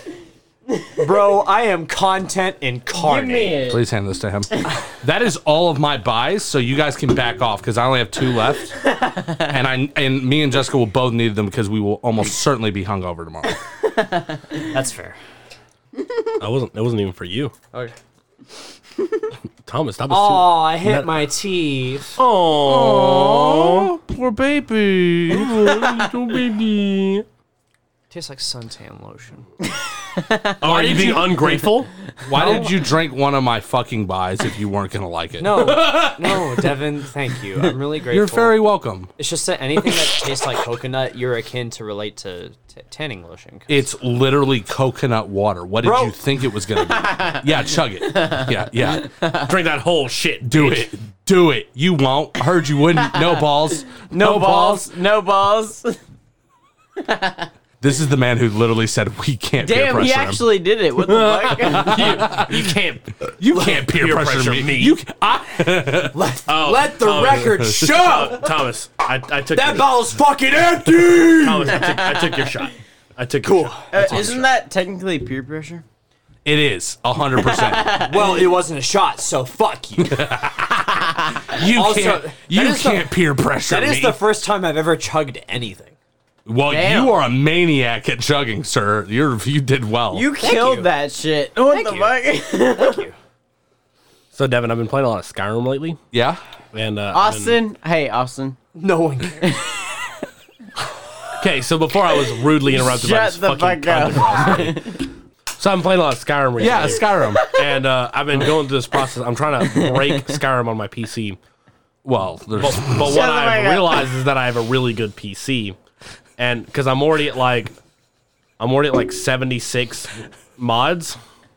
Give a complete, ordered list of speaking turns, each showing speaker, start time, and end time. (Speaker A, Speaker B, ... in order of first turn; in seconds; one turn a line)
Speaker A: 1.0-3.6
Speaker B: 2.9-3.8
Speaker C: 3.7-8.8
Speaker C: 9.4-13.6
Speaker A: 14.7-15.2
Speaker D: 16.4-17.5
Speaker D: 19.6-21.1
Speaker A: 20.1-22.2
Speaker D: 22.2-23.9
Speaker C: 22.6-26.1
Speaker D: 25.3-27.2
Speaker A: 28.1-29.4
Speaker B: 30.2-30.5
Speaker D: 30.6-31.9
Speaker A: 30.6-31.5
Speaker C: 32.2-36.3
Speaker A: 32.3-32.6
Speaker A: 35.4-38.6
Speaker C: 38.1-39.1
Speaker A: 39.2-43.9
Speaker C: 43.7-49.1
Speaker A: 45.8-46.1
Speaker B: 47.0-47.4
Speaker B: 48.2-48.5
Speaker B: 49.1-49.4
Speaker D: 49.4-50.9
Speaker C: 50.4-54.9
Speaker B: 53.0-56.0
Speaker B: 57.0-57.5
Speaker C: 57.8-60.4
Speaker B: 59.6-62.3
Speaker D: 61.0-65.0
Speaker C: 61.7-62.7
Speaker C: 63.4-66.2
Speaker A: 66.1-68.5
Speaker D: 66.5-69.9
Speaker C: 67.2-68.3
Speaker A: 69.5-71.8
Speaker D: 71.2-74.4
Speaker B: 71.8-72.3
Speaker A: 73.4-74.4
Speaker B: 73.9-75.8
Speaker C: 74.0-74.3
Speaker C: 76.4-78.1
Speaker B: 77.4-78.3
Speaker A: 78.0-80.2
Speaker C: 80.0-84.2
Speaker A: 81.7-85.9
Speaker C: 86.5-90.3
Speaker B: 86.7-87.2
Speaker B: 90.1-93.0
Speaker A: 90.4-90.9
Speaker A: 91.7-93.2
Speaker D: 94.3-96.0
Speaker C: 96.1-96.4
Speaker D: 96.7-97.6
Speaker B: 97.1-98.6
Speaker A: 98.7-99.6
Speaker D: 101.4-105.0
Speaker B: 102.7-105.0
Speaker D: 105.6-111.4
Speaker C: 106.6-107.4
Speaker B: 107.3-107.6
Speaker B: 109.8-110.1
Speaker C: 112.0-113.1
Speaker D: 112.6-115.8
Speaker B: 113.0-114.1
Speaker D: 116.4-117.7
Speaker D: 118.6-121.2